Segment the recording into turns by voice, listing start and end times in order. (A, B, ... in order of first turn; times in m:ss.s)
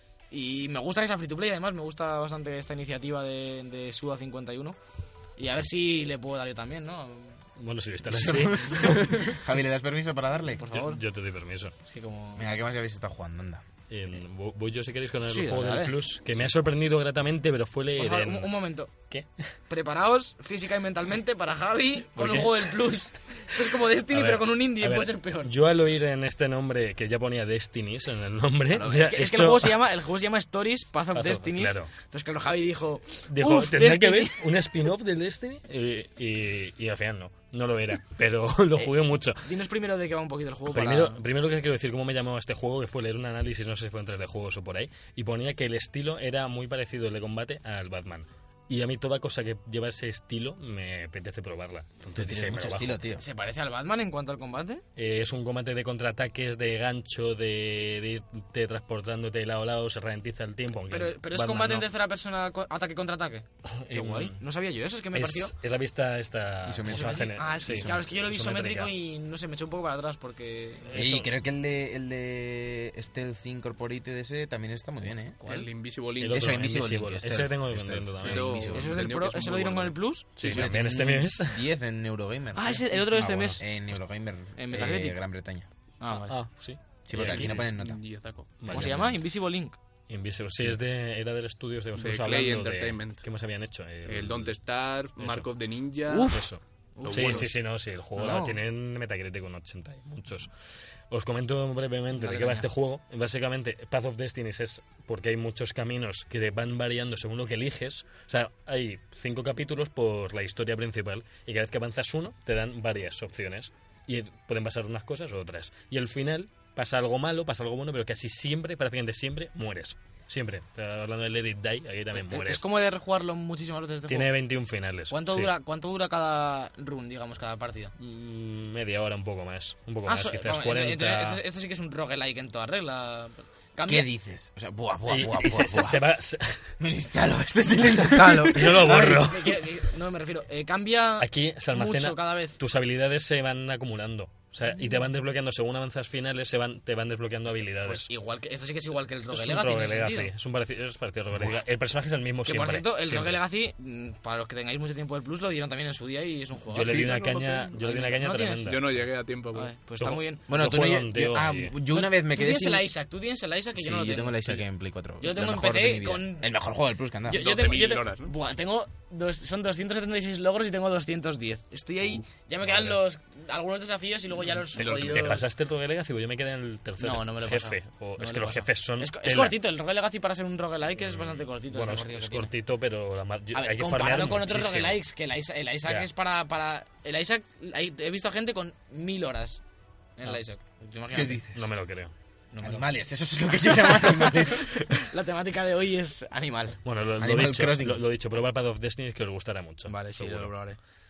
0:00.3-0:04.8 A
0:05.4-0:07.4 A
0:07.6-0:09.4 B
0:08.1-0:10.7 C
0:10.6-0:11.0 A
0:10.7-0:11.7 B
0:11.8-0:12.5 A
0:12.4-0:13.6 C
0:13.9-0:18.6 B
0:15.3-0:16.0 A
0:18.0-0:18.9 A
0:19.1-0:19.5 B
0:19.7-0:25.5 A
0:22.2-0:22.8 B
0:24.1-0:29.8 B
0:28.7-0:34.7 A
0:31.1-0:31.9 B
0:33.3-0:39.5 B
0:38.8-0:41.2 A
0:40.7-0:53.1 B
0:52.1-0:53.2 C
0:53.1-0:54.8 A
0:55.0-1:01.9 B
1:00.9-1:05.6 A
1:03.7-1:04.4 B
1:05.1-1:08.9 B
1:06.6-1:08.1 C
1:06.8-1:10.9 A
1:10.9-1:11.3 B
1:10.9-1:15.4 C
1:15.4-1:15.7 A
1:15.4-1:16.6 D
1:16.2-1:18.6 B
1:16.3-1:19.0 C
1:18.2-1:19.9 D
1:18.6-1:20.3 A
1:20.4-1:21.7 B
1:20.4-1:25.7 C
1:22.6-1:23.6 A
1:23.3-1:23.5 B
1:24.6-1:25.2 A
1:26.0-1:26.4 A
1:26.1-1:27.7 B
1:27.0-1:28.0 C
1:27.1-1:28.6 D
1:28.6-1:29.1 B
1:28.7-1:29.1 C
1:28.7-1:29.8 A
1:30.1-1:34.6 B
1:32.0-1:33.2 D
1:34.1-1:36.4 D
1:35.2-1:35.5 B
1:36.1-1:37.6 A
1:36.3-1:40.5 B
1:37.0-1:37.5 D
1:38.1-1:38.6 A
1:41.1-2:02.6 B
1:42.2-1:42.7 A
2:02.1-2:04.4 A
2:04.1-2:05.5 B
2:05.1-2:07.9 A
2:08.0-2:11.4 B
2:10.1-2:14.1 A
2:13.9-2:16.1 C
2:15.1-2:16.7 B
2:16.8-2:19.3 C
2:18.1-2:19.6 B
2:18.7-2:22.6 A
2:21.2-2:28.1 B
2:27.8-2:30.3 A
2:29.3-2:33.4 B
2:32.4-2:38.8 A
2:36.7-2:38.9 B
2:36.8-2:37.7 D
2:38.6-2:39.7 D
2:39.5-2:40.5 A
2:40.0-2:41.8 B
2:40.5-2:42.9 C
2:41.9-2:44.6 A
2:43.8-2:47.5 C
2:45.2-2:46.5 A
2:47.3-2:55.4 A
2:47.3-2:48.3 D
2:52.6-2:53.0 B
2:54.8-2:55.4 D
2:54.8-2:59.6 B
2:57.0-3:02.5 A
3:01.0-3:05.0 B
3:03.5-3:09.6 A
3:10.2-3:11.4 A
3:11.1-3:11.6 C
3:11.5-3:12.1 B
3:12.5-3:12.9 A
3:12.6-3:14.9 C
3:13.7-3:16.8 A
3:16.8-3:20.5 B
3:17.2-3:18.1 C
3:19.9-3:20.8 A